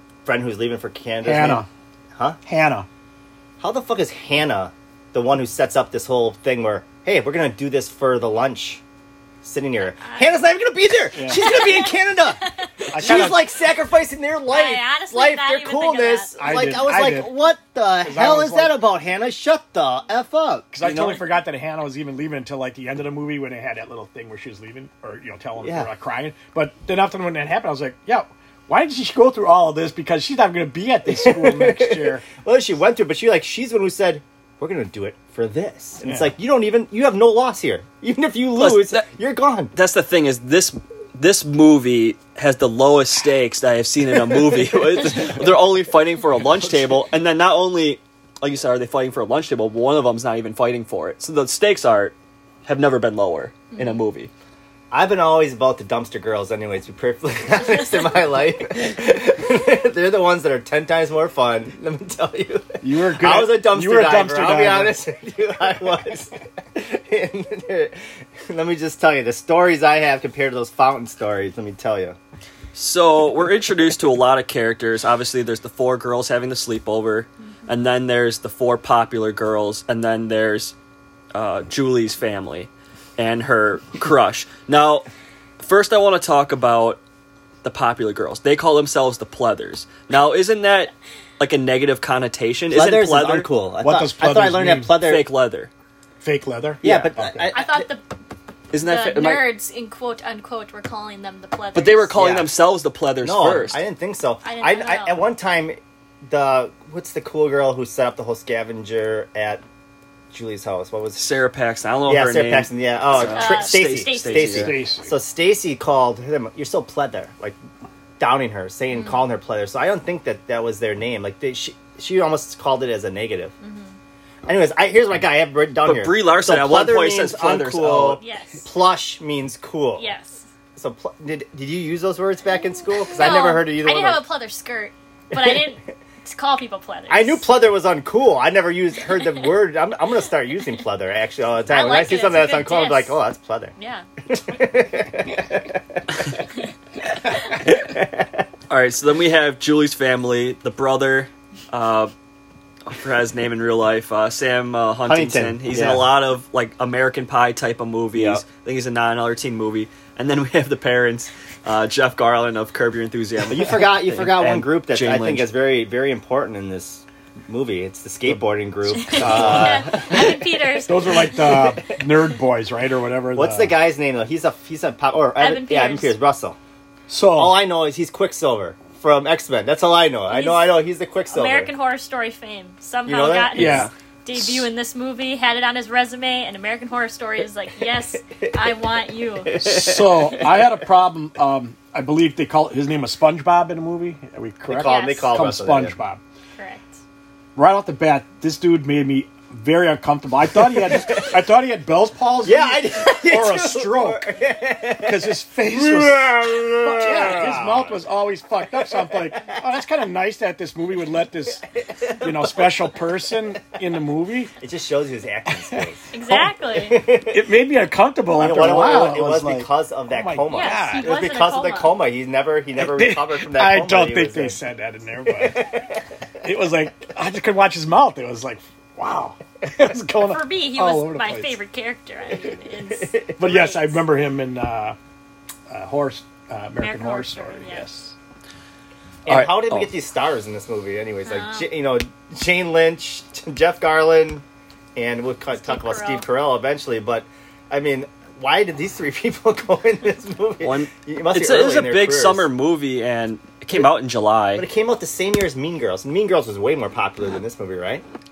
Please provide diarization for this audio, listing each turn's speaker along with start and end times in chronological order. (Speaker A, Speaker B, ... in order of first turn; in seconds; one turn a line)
Speaker A: 0.2-2.4
Speaker B: 1.2-1.7
Speaker B: 2.4-2.9
Speaker A: 3.6-8.8
Speaker A: 9.4-21.2
Speaker C: 10.0-10.3
Speaker B: 11.1-11.5
Speaker C: 11.4-12.7
Speaker B: 12.9-13.4
Speaker C: 14.5-16.6
Speaker B: 16.4-17.3
Speaker B: 18.0-18.7
Speaker B: 20.7-32.2
Speaker A: 25.6-25.9
Speaker A: 31.1-39.7
Speaker B: 36.0-36.3
Speaker D: 38.6-39.1
Speaker D: 39.7-54.3
Speaker A: 46.6-46.9
Speaker C: 53.7-54.0
Speaker A: 54.9-72.2
Speaker B: 62.8-64.9
Speaker D: 72.7-80.7
Speaker D: 81.3-85.1
Speaker D: 85.6-87.0
Speaker D: 87.6-93.5
Speaker A: 92.7-95.3
Speaker B: 93.8-94.9
Speaker D: 95.0-95.7
Speaker B: 96.2-97.5
Speaker A: 96.8-97.9
Speaker C: 97.5-98.1
Speaker D: 98.7-99.5
Speaker C: 98.8-102.1
Speaker D: 101.7-103.8
Speaker A: 102.1-102.5
Speaker A: 103.2-109.6
Speaker C: 104.4-105.2
Speaker A: 110.3-111.2
Speaker D: 111.2-114.8
Speaker A: 112.1-117.6
Speaker C: 113.3-114.6
Speaker B: 114.6-115.1
Speaker A: 118.2-123.5
Speaker C: 123.6-124.0
Speaker A: 124.4-130.1
Speaker D: 125.8-128.2
Speaker C: 128.2-128.7
Speaker C: 130.0-130.5
Speaker A: 130.8-134.2
Speaker C: 133.2-137.5
Speaker A: 135.3-135.7
Speaker A: 137.1-143.7
Speaker C: 141.7-143.2
Speaker C: 143.8-144.0
Speaker A: 144.3-146.0
Speaker A: 147.6-148.4
Speaker D: 148.7-152.1
Speaker D: 152.8-165.5
Speaker A: 155.1-156.1
Speaker A: 158.1-158.4
Speaker A: 163.5-170.3
Speaker C: 168.9-171.7
Speaker D: 169.2-169.8
Speaker B: 170.9-173.7
Speaker A: 171.4-171.7
Speaker A: 173.3-176.6
Speaker C: 175.4-176.1
Speaker B: 177.1-177.6
Speaker A: 177.3-181.7
Speaker C: 180.3-189.6
Speaker A: 183.1-183.9
Speaker B: 183.5-183.9
Speaker A: 189.4-190.6
Speaker B: 189.6-196.2
Speaker A: 194.7-195.9
Speaker C: 194.8-195.3
Speaker C: 196.6-197.0
Speaker B: 197.5-204.2
Speaker A: 200.7-201.4
Speaker A: 202.4-208.0
Speaker B: 205.0-211.6
Speaker A: 208.7-209.5
Speaker A: 211.8-212.9
Speaker B: 212.2-214.5
Speaker A: 214.6-216.1
Speaker B: 215.7-216.5
Speaker C: 216.1-217.0
Speaker A: 216.7-217.4
Speaker B: 217.3-221.1
Speaker A: 218.3-224.6
Speaker C: 220.5-222.0
Speaker B: 222.8-225.6
Speaker A: 225.3-226.0
Speaker B: 226.4-231.6
Speaker C: 230.2-234.0
Speaker A: 232.9-233.4
Speaker B: 233.4-235.0
Speaker B: 235.7-238.1
Speaker C: 236.8-237.8
Speaker A: 239.2-244.4
Speaker D: 239.3-239.9
Speaker C: 241.2-241.7
Speaker A: 244.9-252.5
Speaker C: 245.5-246.2
Speaker D: 250.6-254.7
Speaker A: 254.6-258.0